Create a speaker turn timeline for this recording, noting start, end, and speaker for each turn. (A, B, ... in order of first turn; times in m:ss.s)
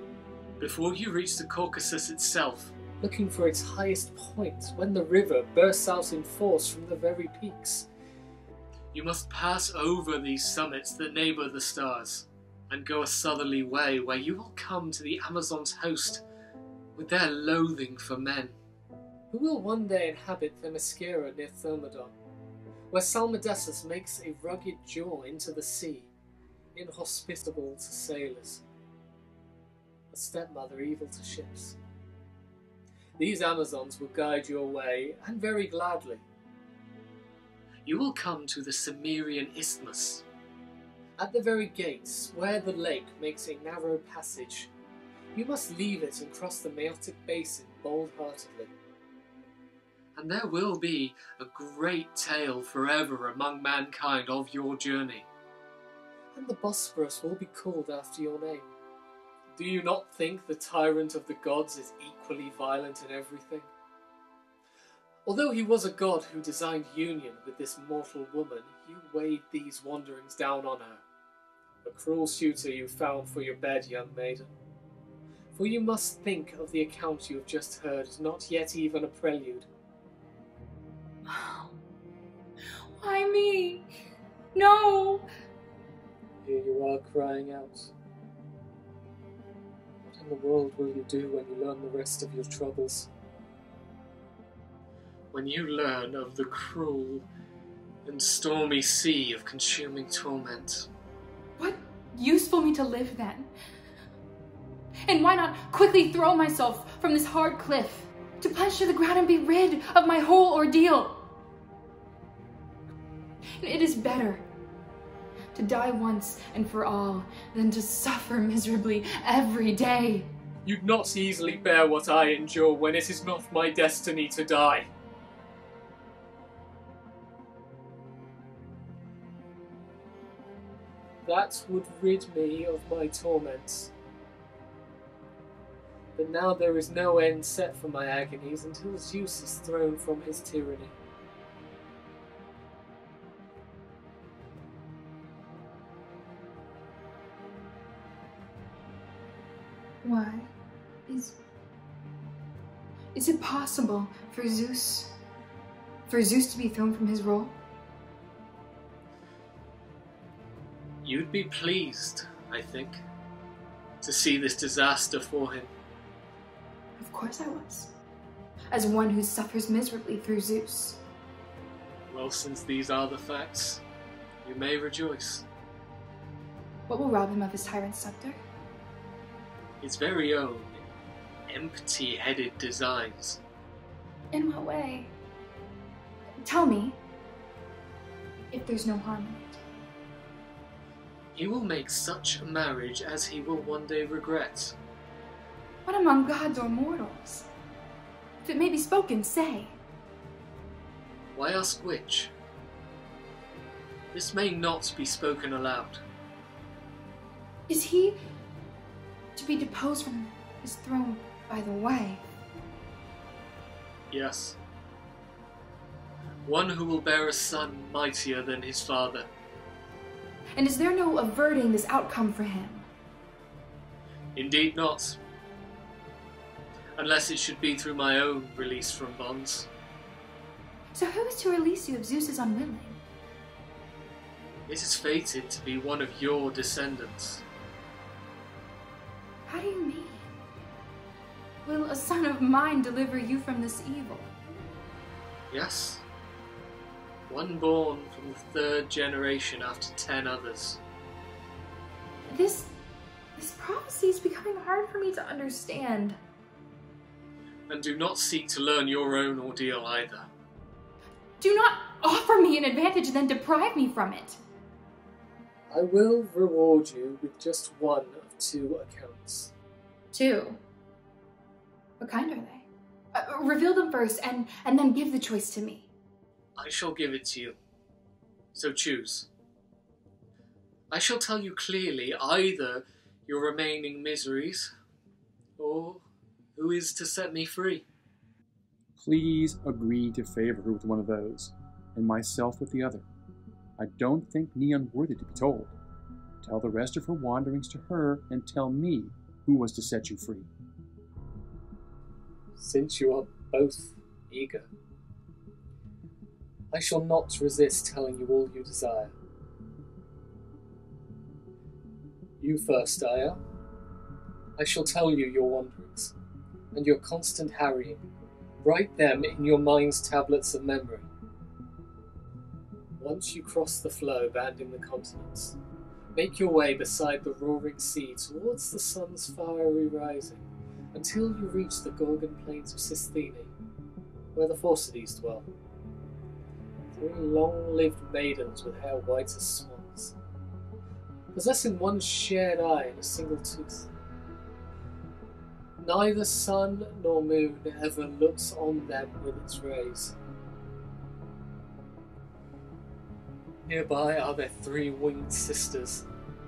0:00.6-0:07.9 A
0:08.9-0:16.2 A
0:17.0-0:18.6 A
0:19.3-0:22.1 A
0:22.9-0:26.1 A
0:26.8-0:28.6 A
0:30.1-0:31.8 A
0:33.2-0:36.2 A
0:37.8-0:40.2 A
0:41.2-0:44.7 A
0:45.3-0:48.7 A
0:50.2-0:55.3 A
0:56.4-0:58.7 A
0:59.6-1:03.7 A
1:05.3-1:11.0 A
1:11.8-1:14.5 A
1:15.5-1:19.7 A
1:21.2-1:21.7 B
1:23.0-1:24.0 B
1:24.6-1:25.3 B
1:26.4-1:27.9 A
1:30.0-1:33.1 A
1:35.3-1:37.3 A
1:38.0-1:40.9 A
1:41.6-1:43.5 B
1:45.1-1:51.3 B
1:53.6-1:54.4 B
1:55.6-2:00.3 B
2:00.6-2:04.9 A
2:11.2-2:13.9 A
2:16.2-2:20.9 A
2:30.0-2:30.5 B
2:31.1-2:31.4 B
2:33.1-2:35.2 B
2:36.1-2:37.6 B
2:41.0-2:43.0 A
2:44.0-2:45.7 A
2:47.0-2:47.9 B
2:48.7-2:51.0 B
2:52.1-2:53.8 A
2:54.4-2:55.5 A
2:56.9-2:58.4 B
2:59.8-3:00.8 A
3:01.5-3:03.4 A
3:04.3-3:05.1 B
3:06.4-3:07.0 B
3:08.5-3:09.6 B
3:11.4-3:14.8 A
3:15.9-3:17.5 B
3:18.4-3:19.8 B
3:21.4-3:22.3 A
3:24.1-3:26.0 A
3:27.7-3:28.2 B
3:29.4-3:32.2 B
3:34.1-3:34.6 A
3:36.4-3:39.3 A
3:40.6-3:42.9 B
3:44.4-3:45.2 A
3:47.0-3:49.7 A
3:50.9-3:53.0 B
3:54.7-3:57.4 A
3:59.5-4:00.3 B
4:01.6-4:04.3 B
4:05.5-4:06.0 A
4:07.3-4:10.8 A
4:12.3-4:12.7 B
4:13.4-4:16.2 B
4:17.7-4:20.3 A
4:21.4-4:24.4 B
4:25.7-4:29.5 A
4:30.1-4:30.6 B
4:32.0-4:35.9 B
4:36.6-4:37.6 A
4:38.5-4:39.3 A
4:40.9-4:44.7 A
4:45.6-4:46.0 A
4:46.6-4:47.9 A
4:49.0-4:53.0 C
4:53.8-4:55.7 C
4:56.4-5:00.5 C
5:02.6-5:04.7 A
5:06.7-5:09.1 A
5:12.4-5:13.4 A
5:14.6-5:16.1 A
5:16.7-5:18.0 A
5:18.6-5:21.1 A
5:23.0-5:25.6 A
5:26.2-5:33.5 A
5:34.4-5:35.5 A
5:37.0-5:40.2 A
5:41.3-5:43.9 A
5:45.8-5:50.2 A
5:53.6-5:56.0 A